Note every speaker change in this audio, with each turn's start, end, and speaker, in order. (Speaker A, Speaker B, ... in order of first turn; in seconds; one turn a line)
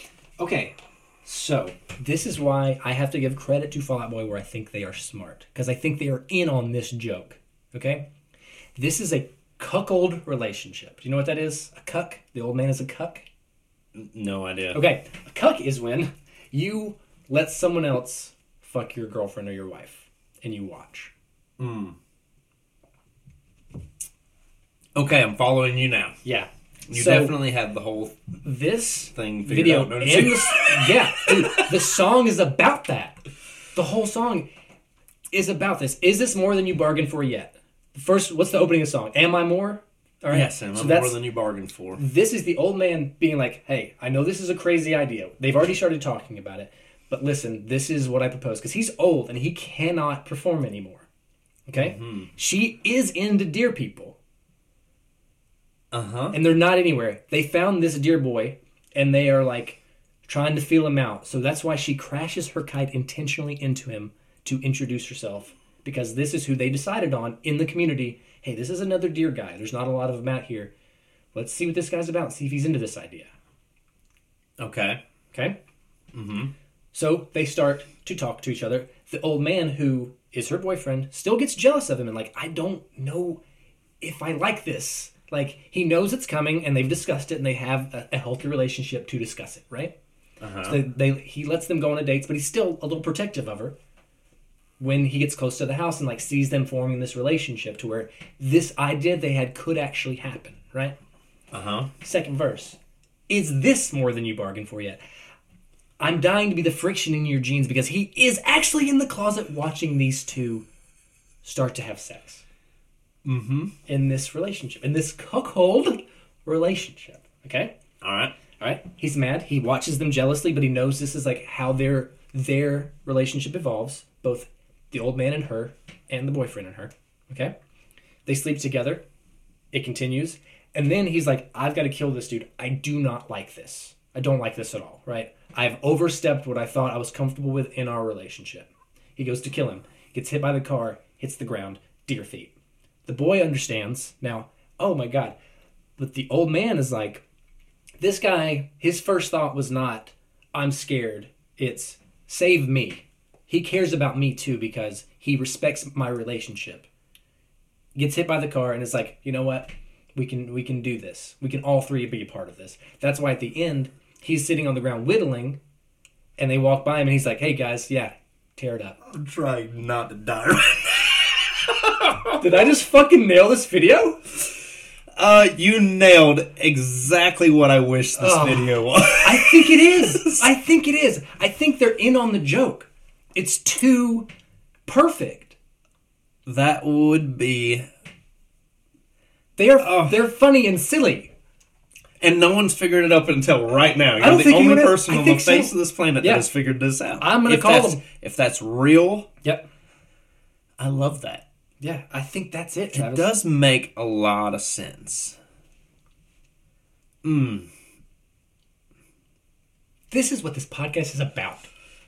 Speaker A: 0.4-8.1
Speaker A: 8.8-13.2
Speaker B: 13.9-14.8
Speaker A: 14.7-21.1
Speaker B: 21.6-22.0
Speaker B: 24.9-26.2
Speaker A: 26.2-27.4
Speaker B: 26.9-28.2
Speaker A: 28.4-33.1
Speaker B: 29.1-31.8
Speaker A: 33.8-34.5
Speaker A: 35.3-41.2
Speaker B: 40.3-42.0
Speaker A: 42.0-51.1
Speaker A: 51.7-54.2
Speaker B: 51.8-52.3
Speaker B: 55.9-56.4
Speaker A: 56.3-70.7
Speaker A: 71.3-73.3
Speaker B: 74.6-75.0
Speaker B: 76.1-76.5
Speaker A: 76.9-83.4
Speaker A: 84.0-89.9
Speaker B: 90.4-90.8
Speaker A: 90.6-93.8
Speaker A: 94.8-101.0
Speaker B: 101.5-101.9
Speaker A: 102.0-102.8
Speaker A: 103.3-105.0
Speaker A: 106.0-110.7
Speaker A: 111.4-112.4
Speaker B: 113.2-113.7
Speaker A: 113.9-117.7
Speaker B: 118.0-118.3
Speaker A: 118.6-127.5
Speaker A: 128.3-129.0
Speaker A: 129.7-142.5
Speaker A: 143.1-145.4
Speaker A: 146.0-147.2
Speaker A: 148.0-156.9
Speaker A: 157.9-165.6
Speaker A: 166.4-169.0
Speaker B: 169.0-172.4
Speaker A: 172.4-174.2
Speaker B: 175.2-180.5
Speaker A: 178.2-184.3
Speaker A: 184.9-185.6
Speaker B: 186.5-187.9
Speaker A: 189.6-191.3
Speaker B: 189.8-190.2
Speaker B: 192.2-199.3
Speaker A: 194.2-196.5
Speaker A: 197.2-198.0
Speaker B: 200.8-201.4
Speaker A: 201.8-203.3
Speaker B: 202.9-205.4
Speaker B: 207.2-207.7
Speaker A: 210.1-211.7